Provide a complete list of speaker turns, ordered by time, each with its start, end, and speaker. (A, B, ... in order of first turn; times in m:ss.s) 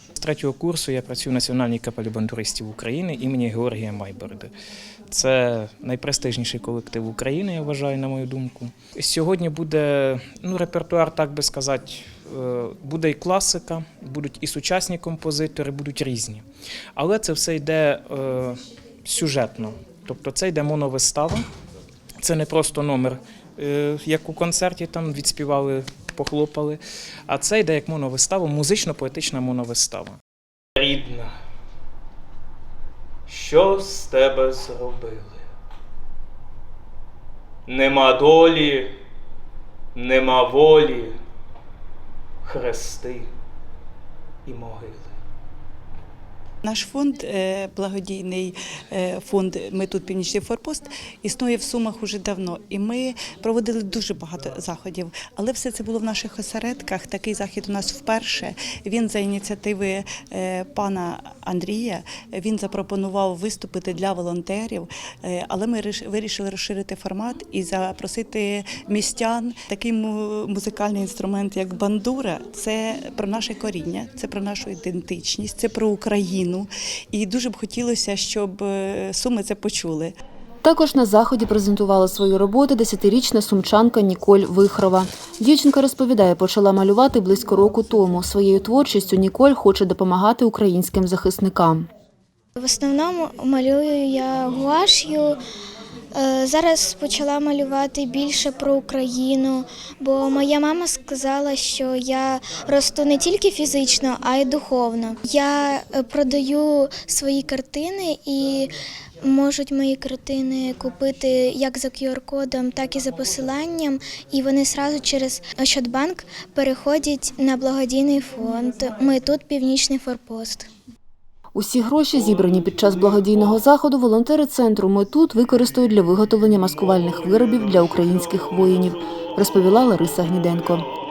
0:00.2-0:04.5 A
0:05.1-0:16.4 A
0:17.0-0:21.4 A
0:22.2-0:30.2 A
0:30.8-0:31.3 A
0:33.3-0:35.4 A
0:37.7-0:38.9 A
0:39.9-0:41.2 A
0:42.4-0:43.3 A
0:44.4-0:45.1 A
0:46.6-1:20.1 B
1:20.6-1:31.9 C
1:32.6-1:35.4 D
1:36.1-2:00.7 D
2:01.5-2:10.8 C
2:08.0-2:08.9 A